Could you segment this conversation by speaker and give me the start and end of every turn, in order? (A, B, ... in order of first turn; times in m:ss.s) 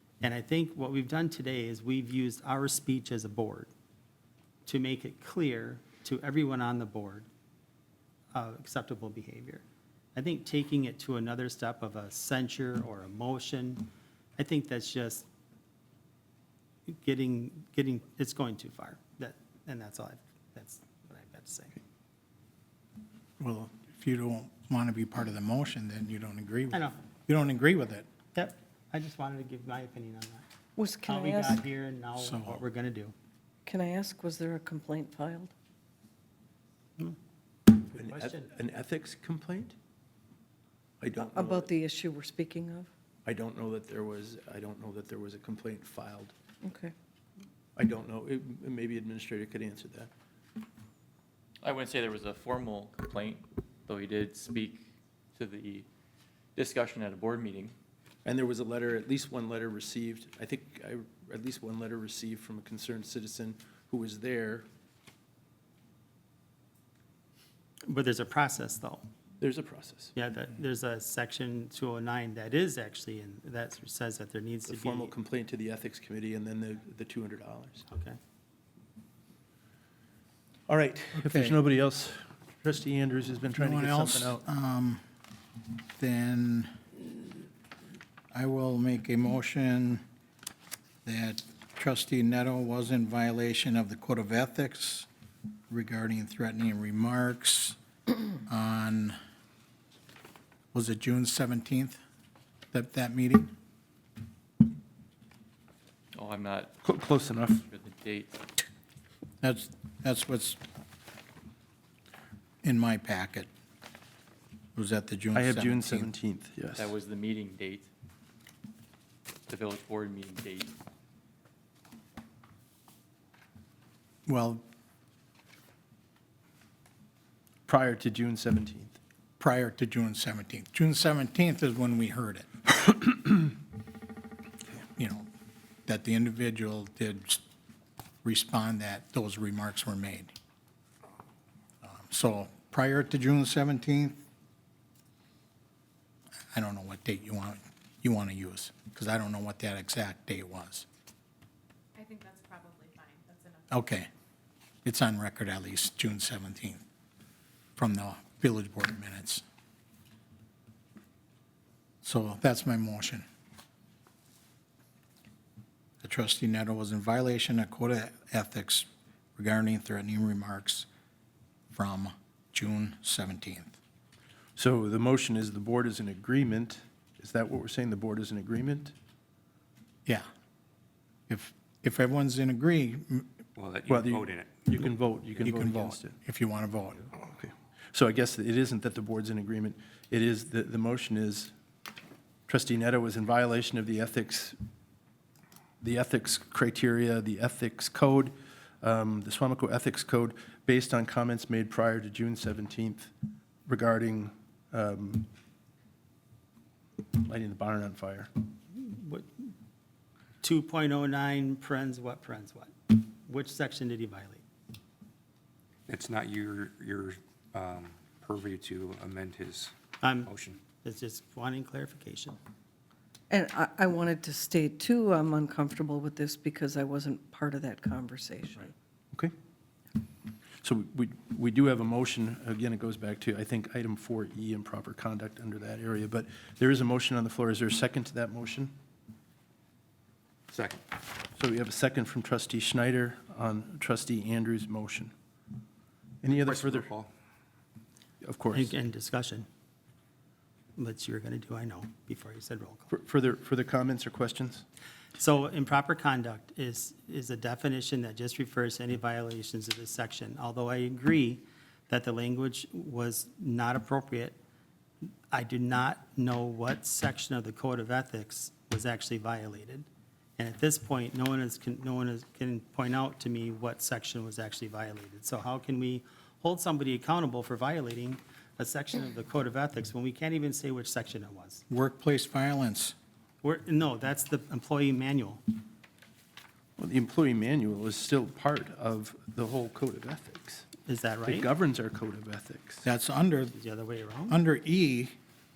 0:00.2-0:03.7 A
0:04.6-0:07.3 A
0:08.3-0:09.6 A
0:10.1-0:15.3 A
0:16.9-0:21.8 A
0:23.4-0:28.0 B
0:26.7-0:27.0 A
0:28.3-0:30.4 A
0:30.8-0:31.6 C
0:31.0-0:33.1 A
0:32.2-0:32.6 B
0:33.7-0:35.5 C
0:37.8-0:38.5 A
0:38.0-0:39.8 D
0:41.0-0:41.7 D
0:41.2-0:42.9 C
0:43.2-0:46.3 D
0:46.6-0:46.9 C
0:47.8-0:50.1 D
0:51.6-0:55.9 E
0:56.6-0:57.8 E
0:58.2-1:04.7 D
1:07.9-1:09.1 A
1:09.4-1:10.1 D
1:10.1-1:15.1 A
1:14.7-1:17.9 D
1:17.9-1:18.2 A
1:20.7-1:24.4 D
1:21.1-1:21.6 B
1:23.6-1:25.0 B
1:26.0-1:26.7 B
1:28.3-1:30.0 B
1:31.0-1:35.1 B
1:35.7-1:37.8 B
1:38.5-1:39.2 B
1:40.7-1:42.0 B
1:42.7-1:43.5 B
1:46.2-1:46.8 E
1:46.8-1:47.6 D
1:47.5-1:48.4 E
1:49.4-1:50.6 B
1:52.6-1:53.5 B
1:54.8-1:56.1 B
1:55.3-1:56.9 D
1:56.8-1:57.9 E
1:59.5-2:00.8 E
2:04.2-2:04.6 B
2:07.7-2:09.0 D
2:09.4-2:12.7 B
2:15.0-2:15.3 B
2:15.8-2:17.4 B
2:18.2-2:20.3 B
2:21.8-2:24.2 B
2:26.5-2:30.8 B
2:32.0-2:33.9 F
2:33.7-2:34.1 B
2:34.8-2:36.8 B
2:37.8-2:39.4 B
2:42.0-2:43.2 B
2:46.0-2:50.9 B
2:51.7-2:53.8 B
2:54.6-2:58.9 D
3:01.3-3:03.3 B
3:03.6-3:04.4 G
3:03.9-3:06.2 D
3:05.4-3:07.0 B
3:07.3-3:11.5 D
3:12.5-3:14.6 D
3:15.8-3:23.1 D
3:23.7-3:25.3 D
3:27.1-3:28.3 D
3:28.7-3:29.5 A
3:30.4-3:34.4 A
3:35.9-3:39.7 G
3:40.0-3:42.4 A
3:43.3-3:48.7 C
3:50.6-3:58.7 D
4:00.5-4:00.8 G
4:01.4-4:05.1 D
4:06.2-4:06.9 D
4:06.3-4:07.0 G
4:08.2-4:08.7 D
4:08.5-4:09.5 A
4:10.8-4:12.9 A
4:12.9-4:14.6 D
4:15.2-4:24.4 A
4:25.3-4:29.9 A
4:30.4-4:41.6 A
4:41.7-4:42.9 B
4:43.4-4:45.4 A
4:46.8-4:50.7 D
4:50.8-4:51.5 A
4:51.2-4:52.8 D
4:52.8-4:53.5 B
4:53.5-4:54.4 A
4:54.3-4:55.1 B